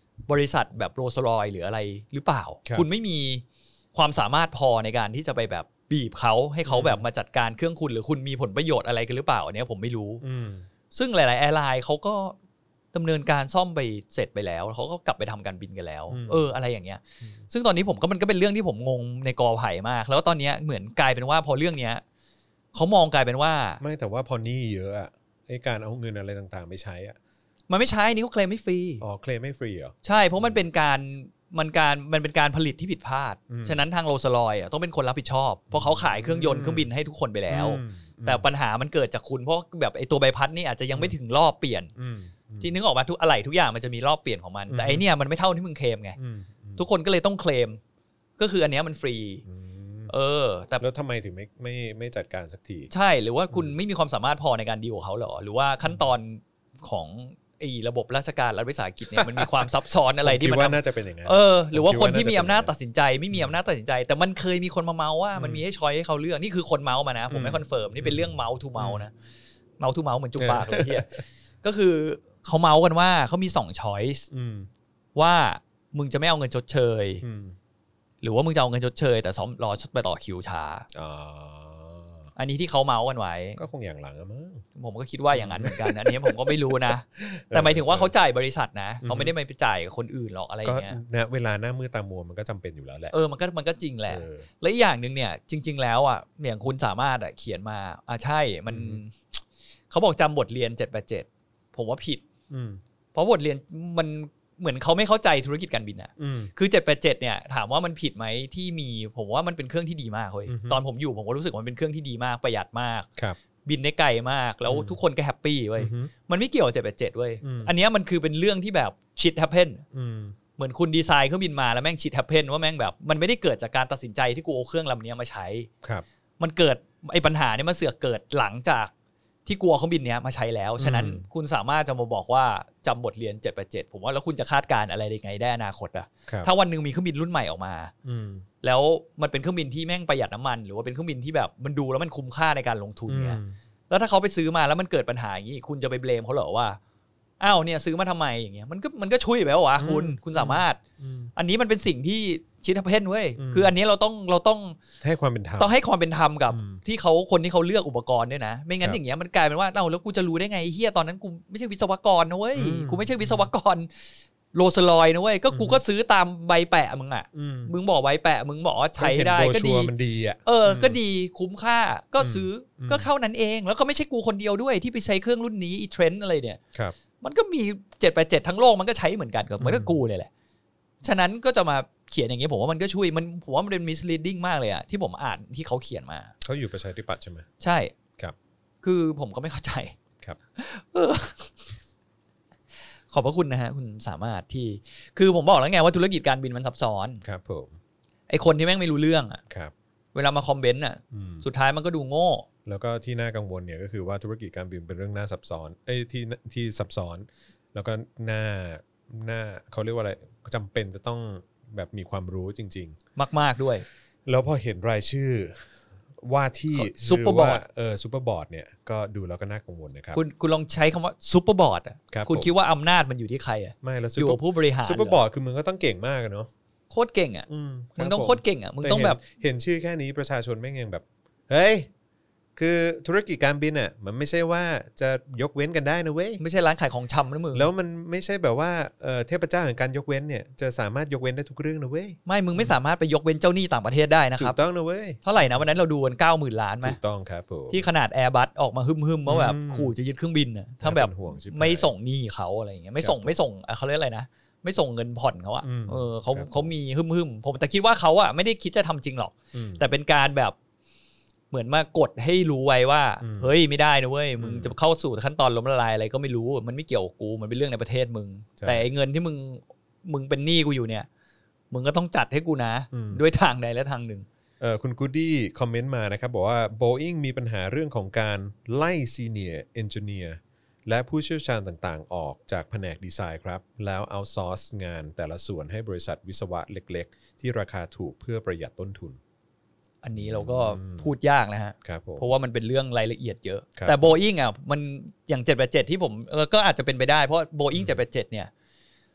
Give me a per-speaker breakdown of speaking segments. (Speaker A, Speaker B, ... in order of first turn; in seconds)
Speaker A: 0.3-3.4, 3.9-10.2, 10.9-12.3, 12.9-22.0, 22.7-23.8, 27.7-29.0, 30.0-41.9, 42.6-46.2, 46.8-47.8, 48.4-49.4, 50.1-50.8, 52.9-69.1, 69.8-74.3, 75.1-77.2, 78.2-80.9, 82.3-83.6, 84.8-91.0, 93.1-99.2, 99.9-102.2, 103.1-113.1, 113.6-119.8, 120.6-125.7, 126.4-128.9, 129.4-137.9, 138.6-146.8, 147.4-150.8, 151.3-154.8, 155.6-163.9, 164.5-169.9, 170.4-176.6, 177.2-180.3, 181.0-186.3, 187.6-187.9, 188.8-189.9, 190.6-191.6, 193.1-197.2, 198.3-199.4, 200.1-202.4, 213.2-213.8, 216.7-217.6, 220.1-225.2, 226.9-229.2, 236.4-237.7, 242.2-244.6, 245.2-247.0, 247.7-260.5, 261.5-271.1, 271.7-274.2, 290.0-298.5
Speaker B: 6.7-7.0, 10.2-10.7, 16.1-16.5, 23.8-27.1, 29.0-30.6, 33.5-33.8, 35.7-36.9, 37.5-38.5, 42.0-42.7, 44.7-45.0, 46.2-46.8, 49.4-50.1, 50.8-52.9, 59.1-59.5, 60.2-62.7, 65.3-65.6, 67.3-69.0, 70.4-71.2, 74.3-74.7, 77.2-77.5, 80.9-82.3, 83.6-84.6, 85.3-88.1, 89.0-89.3, 90.6-93.1, 94.1-94.5, 98.7-99.0, 102.5-102.8, 106.2-106.5, 110.5-110.8, 114.7-115.0, 115.8-116.1, 117.4-117.7, 119.9-120.3, 130.8-131.2, 138.0-138.4, 143.1-143.5, 149.8-151.3, 153.4-153.7, 155.0-155.7, 156.5-156.8, 162.6-163.5, 165.5-165.8, 167.3-167.7, 169.0-171.0, 172.2-173.1, 179.6-179.9, 186.4-187.5, 197.2-197.8, 201.1-201.4, 202.6-213.0, 214.2-220.2, 222.1-222.5, 223.8-226.5, 227.5-231.9, 232.6-236.4, 237.5-242.7, 244.4-245.6, 246.8-247.9, 249.3-249.9, 250.8-251.9, 253.0-253.3, 255.6-256.7, 259.5-259.8, 263.2-263.5, 264.4-264.7, 268.6-268.9, 272.9-273.2, 274.6-289.2, 290.1-291.1, 291.8-292.3, 293.8-294.2